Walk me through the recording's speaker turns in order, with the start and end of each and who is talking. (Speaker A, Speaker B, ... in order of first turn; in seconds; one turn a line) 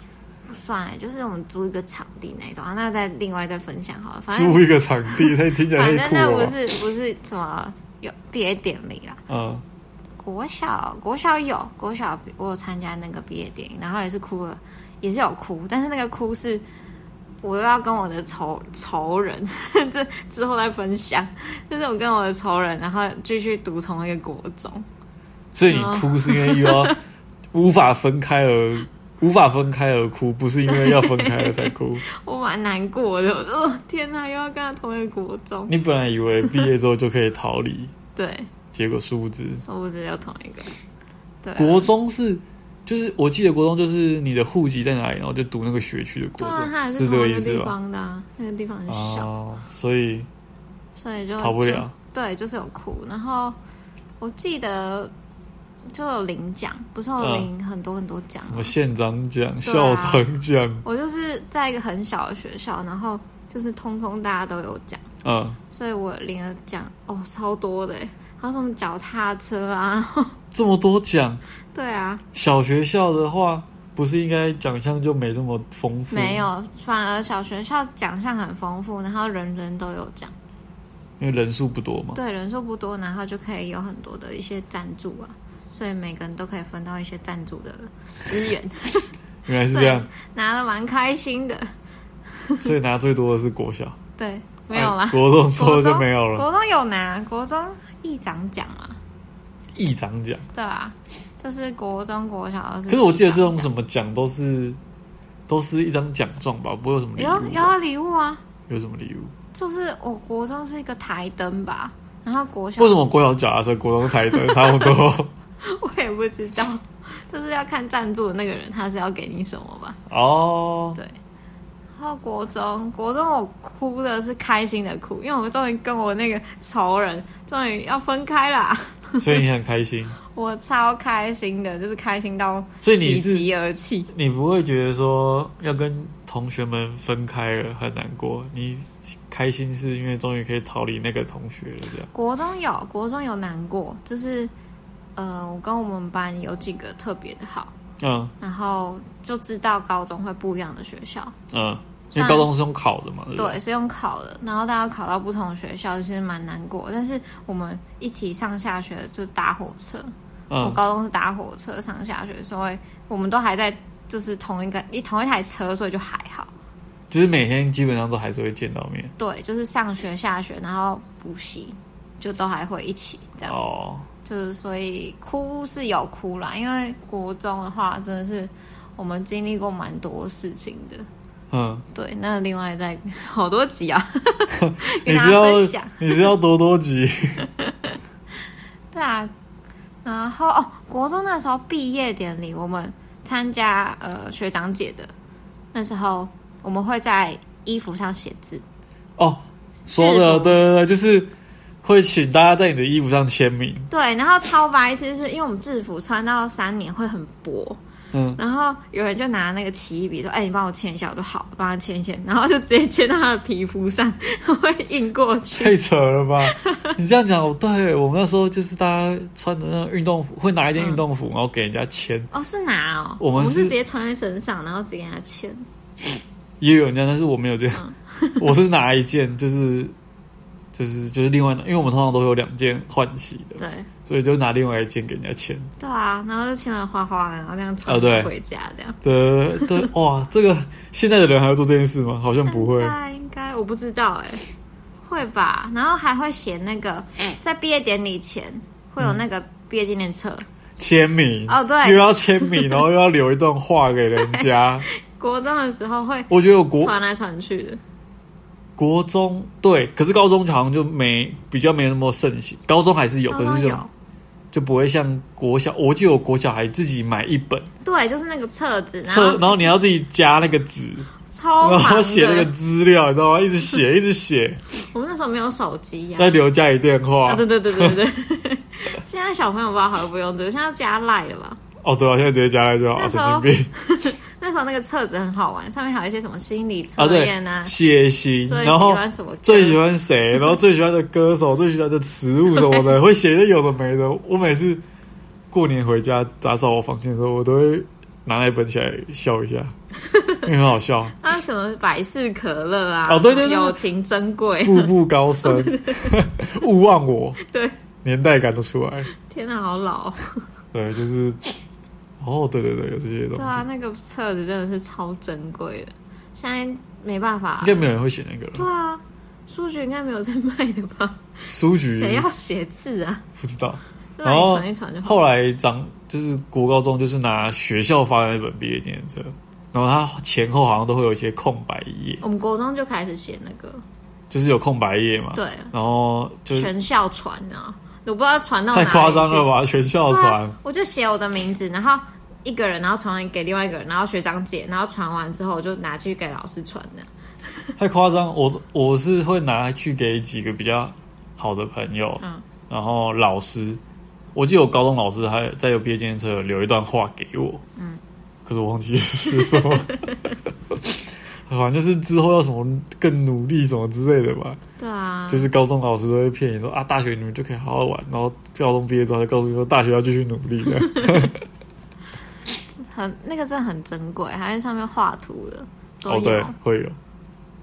Speaker A: 0.5-9.2
Speaker B: 4.3-6.5
Speaker B: 9.3-9.6
Speaker A: 10.2-16.6
Speaker A: 17.4-24.9
Speaker B: 25.6-27.0
Speaker A: 25.7-26.9
Speaker B: 27.5-32.0
Speaker A: 30.7-35.7
Speaker B: 35.7-37.9
Speaker A: 38.2-38.5
Speaker B: 38.7-39.6
Speaker A: 39.6-40.7
Speaker A: 41.4-41.9
Speaker B: 41.6-47.7
Speaker A: 46.4-49.3
Speaker B: 48.9-50.3
Speaker A: 51.0-53.6
Speaker B: 51.4-52.0
Speaker A: 54.2-55.1
Speaker A: 55.9-58.7
Speaker B: 57.2-57.5
Speaker B: 58.5-60.9
Speaker A: 59.6-60.2
Speaker A: 60.9-65.0
Speaker B: 65.2-65.6
Speaker A: 65.7-70.4
Speaker B: 70.5-71.4
Speaker A: 71.7-72.2
Speaker B: 72.3-76.5
Speaker A: 76.1-80.3
Speaker B: 81.2-82.2
Speaker A: 82.1-89.1
Speaker B: 89.5-90.1
Speaker A: 89.7-91.7
Speaker A: 92.3-92.7
Speaker B: 92.6-94.0
Speaker A: 94.2-99.0
Speaker B: 94.7-96.5
Speaker B: 99.8-100.4
Speaker A: 100.5-103.7
Speaker B: 102.9-104.8
Speaker B: 105.5-107.7
Speaker A: 107.2-108.4
Speaker B: 108.7-109.3
Speaker A: 109.5-113.1
Speaker B: 112.8-115.3
Speaker A: 114.2-115.0
Speaker A: 115.6-120.0
Speaker B: 120.1-121.0
Speaker A: 121.9-129.4
Speaker B: 129.2-130.2
Speaker A: 130.3-134.1
Speaker B: 132.8-133.5
Speaker B: 134.1-142.1
Speaker A: 142.1-144.5
Speaker A: 145.2-147.7
Speaker B: 148.0-148.3
Speaker A: 148.4-151.3
Speaker B: 151.5-153.6
Speaker A: 152.1-152.5
Speaker A: 153.4-166.5
Speaker B: 160.5-160.8
Speaker B: 167.1-169.1
Speaker A: 169.2-173.6
Speaker B: 173.5-174.1
Speaker A: 174.2-181.1
Speaker B: 181.5-181.8
Speaker A: 181.9-186.3
Speaker B: 184.6-187.5
Speaker A: 187.4-188.0
Speaker A: 188.9-189.3
Speaker A: 190.0-195.1
Speaker A: 195.7-198.6
Speaker B: 199.2-201.3
Speaker A: 199.9-200.6
Speaker B: 201.8-203.9
Speaker A: 203.9-207.8
Speaker B: 208.1-208.4
Speaker A: 208.4-215.8
Speaker B: 215.5-222.3
Speaker A: 216.4-216.9
Speaker A: 220.8-221.1
Speaker A: 222.3-225.7
Speaker B: 223.2-223.8
Speaker B: 226.6-227.8
Speaker A: 227.8-228.6
Speaker B: 228.4-229.9
Speaker B: 230.7-235.7
Speaker A: 233.6-233.9
Speaker A: 235.8-239.0
Speaker B: 237.9-238.3
Speaker B: 239.0-242.9
Speaker A: 239.6-239.9
Speaker A: 242.3-244.4
Speaker A: 245.0-250.5
Speaker B: 250.8-254.9
Speaker A: 251.5-252.8
Speaker A: 254.1-257.8
Speaker B: 256.3-256.9
Speaker B: 258.8-263.8
Speaker A: 263.3-263.9
Speaker B: 264.5-267.7
Speaker A: 267.8-269.8
Speaker B: 269.1-274.6
Speaker A: 271.3-272.5
Speaker A: 274.9-276.4
Speaker B: 276.2-278.0
Speaker A: 277.2-281.6
Speaker B: 281.8-283.7
Speaker A: 282.9-287.8
Speaker B: 287.0-294.8
Speaker A: 288.5-289.8
Speaker A: 292.6-292.9
Speaker B: 295.5-299.8
Speaker A: 300.1-300.4
Speaker B: 300.4-301.2
Speaker A: 301.2-304.9
Speaker B: 303.1-303.8
Speaker B: 304.6-307.4
Speaker A: 305.4-306.2
Speaker A: 307.4-307.8
Speaker B: 308.0-309.1
Speaker A: 309.1-310.4
Speaker B: 310.7-311.6
Speaker B: 312.2-313.6
Speaker A: 313.3-317.9
Speaker B: 317.6-318.7
Speaker A: 318.6-323.2
Speaker B: 321.5-322.3
Speaker B: 323.4-332.2
Speaker A: 324.2-325.2
Speaker A: 332.2-333.8
Speaker B: 334.3-336.7
Speaker A: 335.3-335.7
Speaker A: 336.5-339.5
Speaker B: 338.7-340.6
Speaker A: 340.0-347.1
Speaker B: 347.8-353.8
Speaker B: 354.4-357.6
Speaker A: 357.8-358.0
Speaker B: 358.4-360.1
Speaker A: 359.3-360.3
Speaker B: 360.7-364.6
Speaker A: 364.8-365.5
Speaker B: 365.3-371.4
Speaker A: 370.9-371.3
Speaker A: 372.7-376.5
Speaker B: 376.1-377.0